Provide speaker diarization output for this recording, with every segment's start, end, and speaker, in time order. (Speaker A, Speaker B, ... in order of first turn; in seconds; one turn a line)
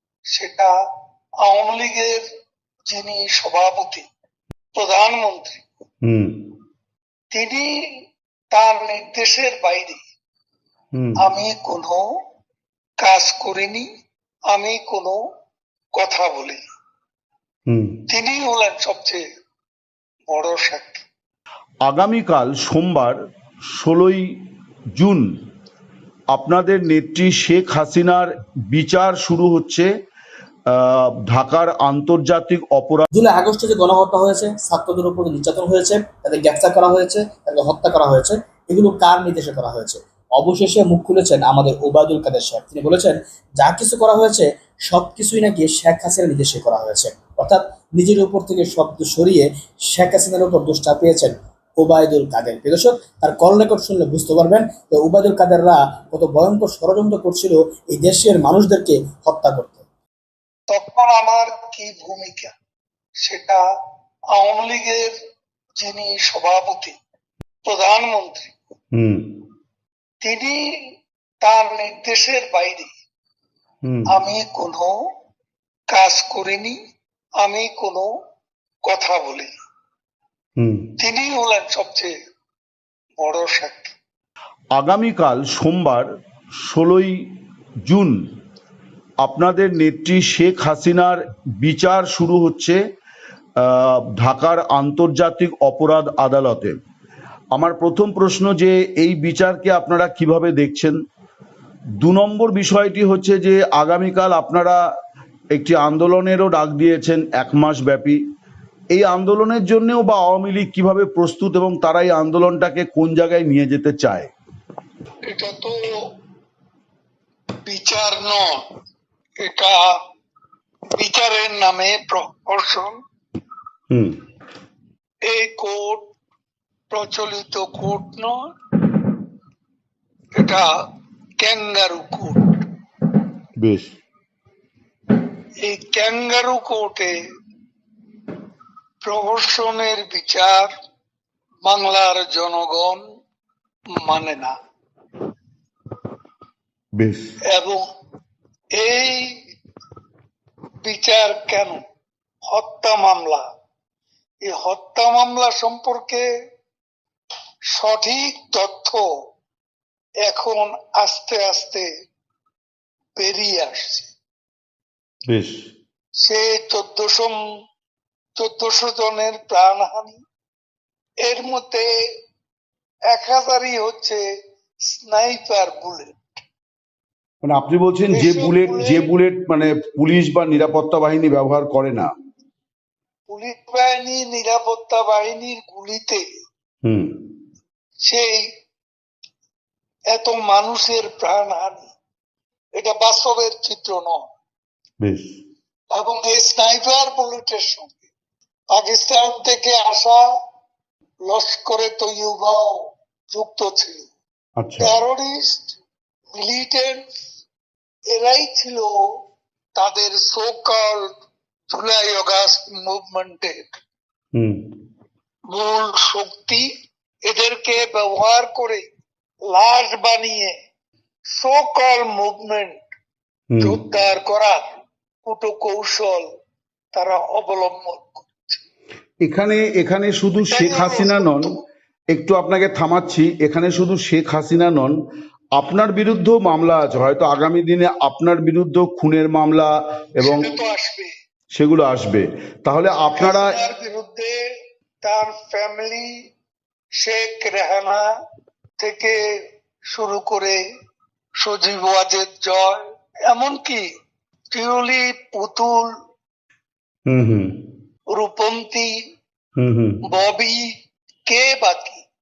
Speaker A: 0.3-0.7
Speaker A: 1.4-2.2
Speaker A: 2.9-4.1
Speaker A: 4.8-5.6
Speaker B: 6.0-6.5
Speaker A: 7.3-7.7
Speaker A: 8.5-10.0
Speaker B: 10.9-11.2
Speaker A: 11.2-12.0
Speaker A: 13.0-13.9
Speaker A: 14.5-15.2
Speaker A: 15.9-16.6
Speaker B: 17.7-18.0
Speaker A: 18.1-19.2
Speaker A: 20.3-21.1
Speaker B: 21.9-23.2
Speaker B: 23.7-24.3
Speaker B: 24.9-25.3
Speaker B: 26.3-29.9
Speaker B: 30.7-33.1
Speaker C: 33.1-59.8
Speaker A: 60.7-62.5
Speaker A: 63.2-63.6
Speaker A: 64.3-65.1
Speaker A: 65.8-67.0
Speaker A: 67.7-68.5
Speaker B: 68.9-69.3
Speaker A: 70.2-70.6
Speaker A: 71.4-72.9
Speaker B: 73.8-74.2
Speaker A: 74.1-74.9
Speaker A: 75.9-76.8
Speaker A: 77.4-78.1
Speaker A: 78.8-79.6
Speaker B: 80.6-80.9
Speaker A: 81.0-82.1
Speaker A: 83.2-84.0
Speaker B: 84.8-86.1
Speaker B: 86.6-87.2
Speaker B: 87.8-88.2
Speaker B: 89.2-92.8
Speaker B: 93.6-96.8
Speaker B: 97.5-101.0
Speaker B: 102.0-104.8
Speaker B: 105.5-108.2
Speaker B: 108.9-114.3
Speaker A: 115.3-115.9
Speaker A: 117.7-118.6
Speaker A: 119.4-120.0
Speaker A: 121.0-123.0
Speaker B: 123.9-124.2
Speaker A: 125.2-126.1
Speaker A: 126.9-128.4
Speaker A: 130.3-130.7
Speaker A: 131.4-132.5
Speaker B: 133.6-133.9
Speaker A: 135.6-137.2
Speaker A: 139.0-140.7
Speaker A: 141.7-143.0
Speaker A: 144.0-144.6
Speaker B: 147.0-147.3
Speaker A: 147.5-147.8
Speaker A: 148.8-149.4
Speaker A: 150.8-151.8
Speaker A: 152.5-153.4
Speaker A: 154.4-156.3
Speaker A: 157.7-159.0
Speaker A: 160.2-161.9
Speaker A: 163.2-164.1
Speaker B: 165.3-165.6
Speaker A: 166.2-167.4
Speaker A: 168.4-170.2
Speaker A: 171.2-171.9
Speaker A: 173.1-174.2
Speaker A: 174.9-176.3
Speaker B: 177.4-182.1
Speaker A: 178.1-179.1
Speaker A: 183.3-186.2
Speaker B: 186.8-187.2
Speaker A: 188.0-188.5
Speaker A: 190.1-191.9
Speaker A: 192.8-194.3
Speaker B: 195.0-195.3
Speaker A: 195.9-198.0
Speaker A: 198.7-200.3
Speaker A: 201.3-204.1
Speaker B: 204.6-205.0
Speaker A: 204.8-205.7
Speaker A: 206.3-207.1
Speaker A: 208.1-209.0
Speaker A: 209.8-211.1
Speaker A: 211.7-213.6
Speaker B: 214.3-214.7
Speaker A: 215.5-216.7
Speaker A: 217.3-218.8
Speaker A: 219.5-220.5
Speaker A: 221.3-222.8
Speaker B: 223.5-223.8
Speaker A: 223.6-224.7
Speaker A: 225.2-226.3
Speaker A: 226.9-228.6
Speaker B: 229.2-231.5
Speaker A: 230.5-231.7
Speaker B: 232.1-234.9
Speaker B: 235.6-240.5
Speaker A: 240.2-241.1
Speaker B: 241.5-243.6
Speaker A: 243.1-244.4
Speaker A: 245.0-246.1
Speaker A: 247.0-248.1
Speaker A: 248.8-249.2
Speaker A: 249.9-250.6
Speaker A: 251.4-253.8
Speaker A: 254.5-255.9
Speaker B: 257.1-257.6
Speaker A: 258.1-258.9
Speaker B: 259.6-260.0
Speaker A: 260.1-260.7
Speaker A: 261.3-262.0